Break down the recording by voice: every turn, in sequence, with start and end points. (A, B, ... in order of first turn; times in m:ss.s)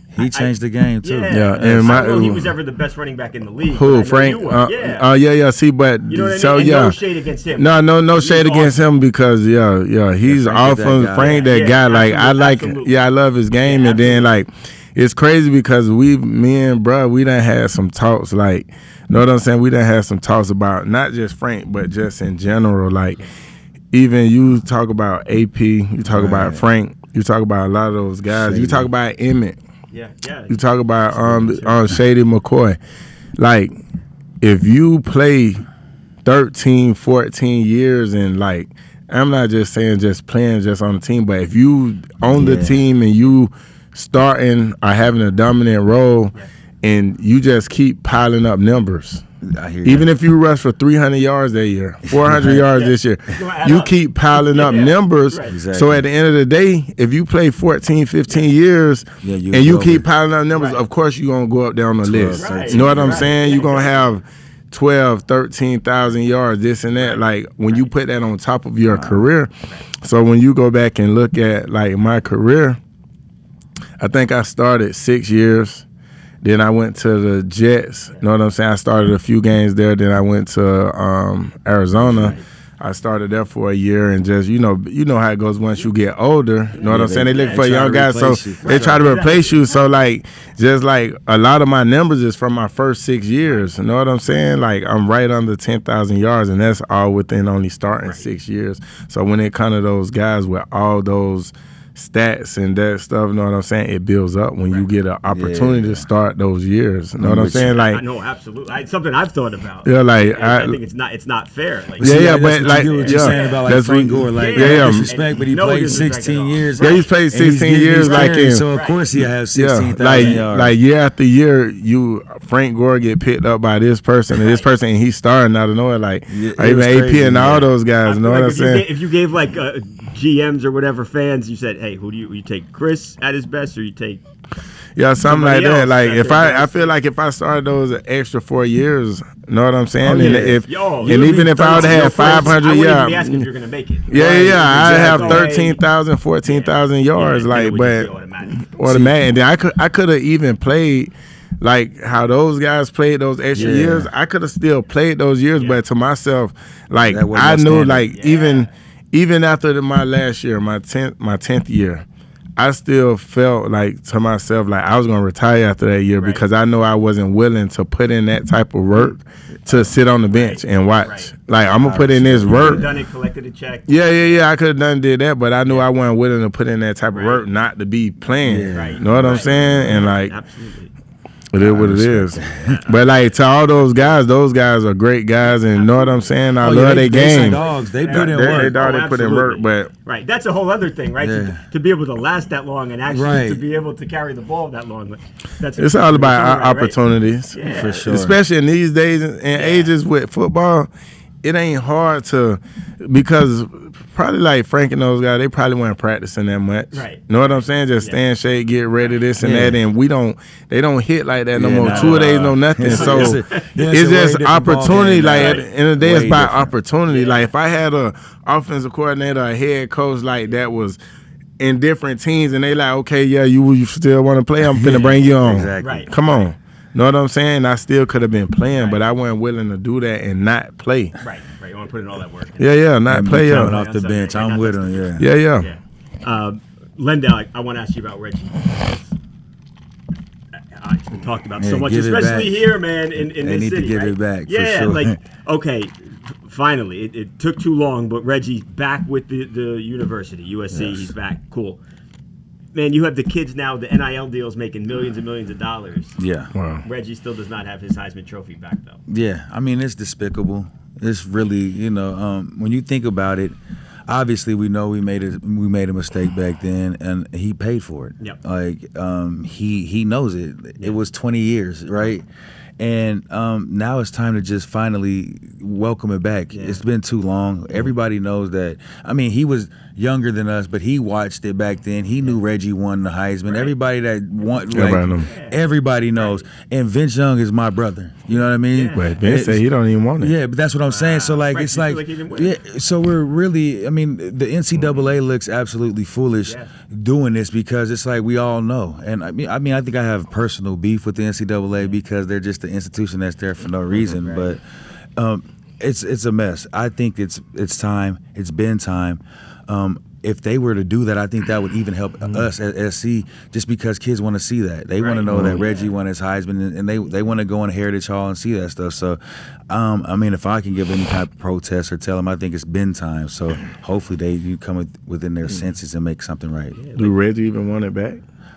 0:00.1-0:02.0 A
0:00.2-0:05.1 B
0:01.3-0:02.5 C
0:03.7-0:07.0 C
0:06.1-0:08.8 B
0:07.6-0:23.2 C
0:10.3-0:11.4 A
0:11.2-0:13.0 B
0:13.6-0:14.3 B
0:23.9-0:29.6 C
0:26.1-0:26.6 A
0:28.3-0:28.9 A
0:29.9-0:31.9 B
0:30.5-0:32.8 C
0:33.4-0:33.7 C
0:34.4-0:35.6 C
0:36.2-0:49.2 C
0:42.3-0:42.8 A
0:49.4-0:50.1 A
0:49.8-1:12.8 C
0:52.0-0:52.7 A
0:52.7-0:55.6 B
0:55.5-0:56.0 A
0:59.2-1:00.1 A
1:00.5-1:00.8 B
1:02.0-1:03.4 A
1:02.4-1:04.1 B
1:07.0-1:07.9 B
1:08.9-1:09.3 A
1:14.0-1:15.9 C
1:16.4-1:48.0 C
1:22.0-1:22.4 A
1:22.2-1:22.4 B
1:26.7-1:27.7 B
1:26.8-1:29.1 A
1:28.6-1:29.8 B
1:45.3-1:46.1 A
1:47.2-1:47.7 A
1:47.5-1:53.6 B
1:49.8-1:50.8 C
1:52.0-2:00.7 A
1:52.0-1:55.1 C
1:54.4-1:57.1 B
1:56.8-1:58.7 C
1:58.0-1:59.3 B
1:59.5-2:08.9 C
2:00.1-2:00.4 B
2:04.3-2:04.7 B
2:06.3-2:07.7 A
2:08.0-2:14.2 B
2:15.0-2:23.5 C
2:15.2-2:16.9 B
2:20.0-2:22.6 A
2:20.1-2:25.8 B
2:24.1-2:42.0 C
2:24.8-2:25.4 A
2:26.4-2:28.7 B
2:28.9-2:29.2 A
2:33.5-2:34.1 A
2:37.0-2:38.1 A
2:38.1-2:38.7 B
2:42.6-2:52.9 C
2:46.2-2:46.4 B
2:50.3-2:51.3 B
2:51.8-2:52.9 A
2:52.5-2:54.5 B
2:53.9-3:00.3 C
2:57.1-2:57.4 B
2:58.4-3:00.0 A
2:58.7-3:00.9 B
3:01.5-3:09.9 C
3:01.6-3:02.8 A
3:02.6-3:03.2 B
3:05.7-3:06.3 B
3:06.6-3:08.8 A
3:07.1-3:17.0 B
3:11.2-3:11.6 A
3:13.1-3:13.6 A
3:15.8-3:20.9 C
3:17.5-3:18.0 B
3:17.6-3:18.4 A
3:19.5-3:19.9 B
3:21.4-3:41.0 C
3:26.9-3:28.2 B
3:29.4-3:29.8 A
3:31.6-3:36.7 A
3:31.8-3:33.8 B
3:35.3-3:35.7 B
3:37.1-3:37.5 B
3:41.6-3:51.2 C
3:44.7-3:46.1 A
3:45.8-3:46.5 B
3:48.7-3:49.0 B
3:51.2-3:52.8 B
3:52.6-3:53.7 C
3:53.1-3:55.3 A
3:53.5-3:59.2 B
3:55.2-3:55.7 C
4:00.7-4:11.8 B
4:01.6-4:05.2 A
4:10.8-4:11.0 A
4:12.7-4:16.2 B
4:16.2-4:16.5 A
4:16.5-4:16.8 C
4:16.8-4:19.0 B
4:19.1-4:23.6 A
4:24.1-4:32.2 A
4:32.8-4:49.6 A
4:36.5-4:36.8 B
4:43.5-4:43.7 B
4:44.7-4:45.3 C
4:45.2-4:45.6 B
4:46.1-4:46.5 B
4:48.3-4:49.2 B
4:48.9-4:50.4 C
4:50.2-5:04.6 A
4:50.9-4:52.6 B
4:56.5-4:56.7 B
5:03.9-5:04.6 B
5:05.2-5:26.8 A
5:15.0-5:15.9 B
5:15.3-5:15.6 C
5:26.8-5:27.2 B
5:27.0-5:28.2 C